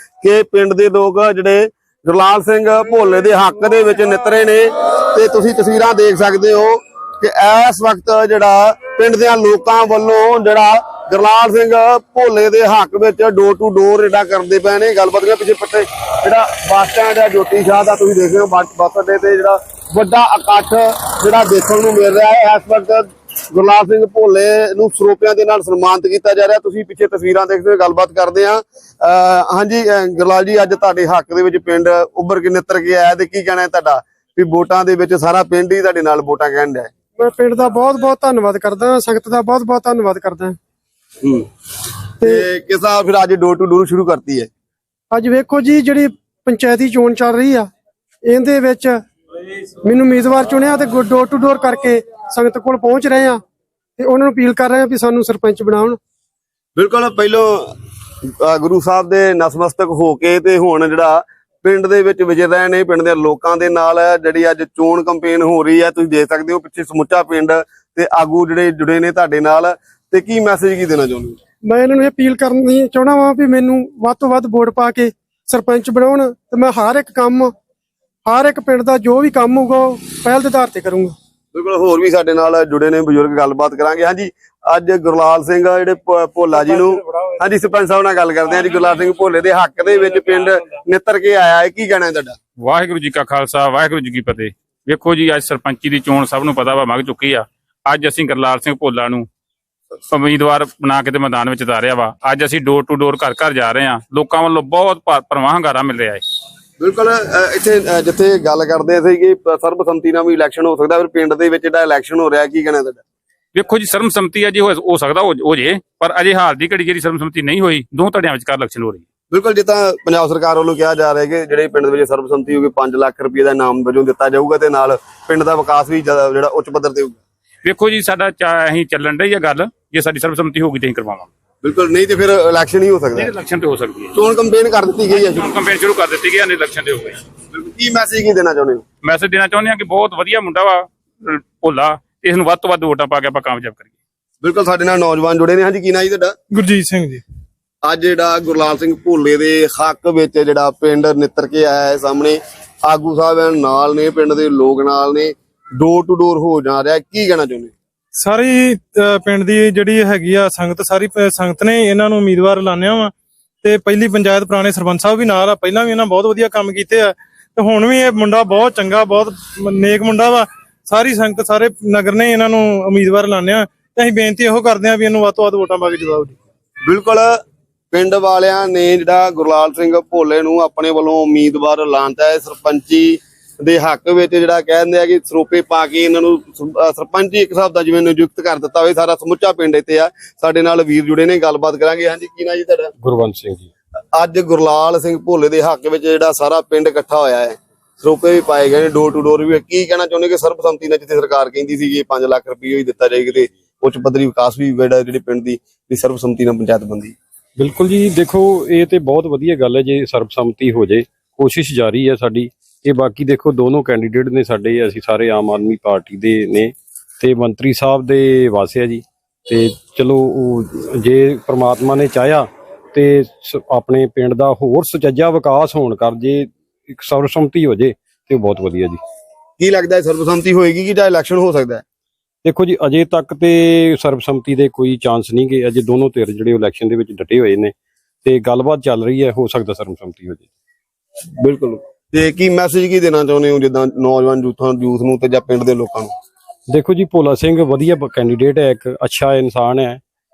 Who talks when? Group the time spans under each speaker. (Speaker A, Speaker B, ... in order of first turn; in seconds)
Speaker A: 0.2-36.9, 42.2-44.5, 56.8-57.7, 58.4-71.4, 81.5-92.4, 106.8-113.0, 119.3-127.2, 131.6-133.3, 134.1-135.5, 137.5-138.8, 144.4-146.3, 147.8-157.7, 176.8-177.4, 177.9-192.9, 194.1-207.1, 229.6-231.8, 241.4-246.1
Speaker B: 37.2-40.6, 45.1-47.7, 48.2-49.0, 49.8-53.4, 54.0-56.0, 71.7-77.5, 78.2-81.1
Speaker C: 92.6-99.3, 100.1-106.2, 113.5-119.0, 127.6-131.3, 133.1-134.1, 135.1-137.2, 139.0-143.9
Speaker D: 146.5-147.2, 158.2-163.1, 163.6-176.4
Speaker E: 193.0-193.7, 207.6-229.0, 232.4-237.7, 238.2-240.5, 246.7-250.0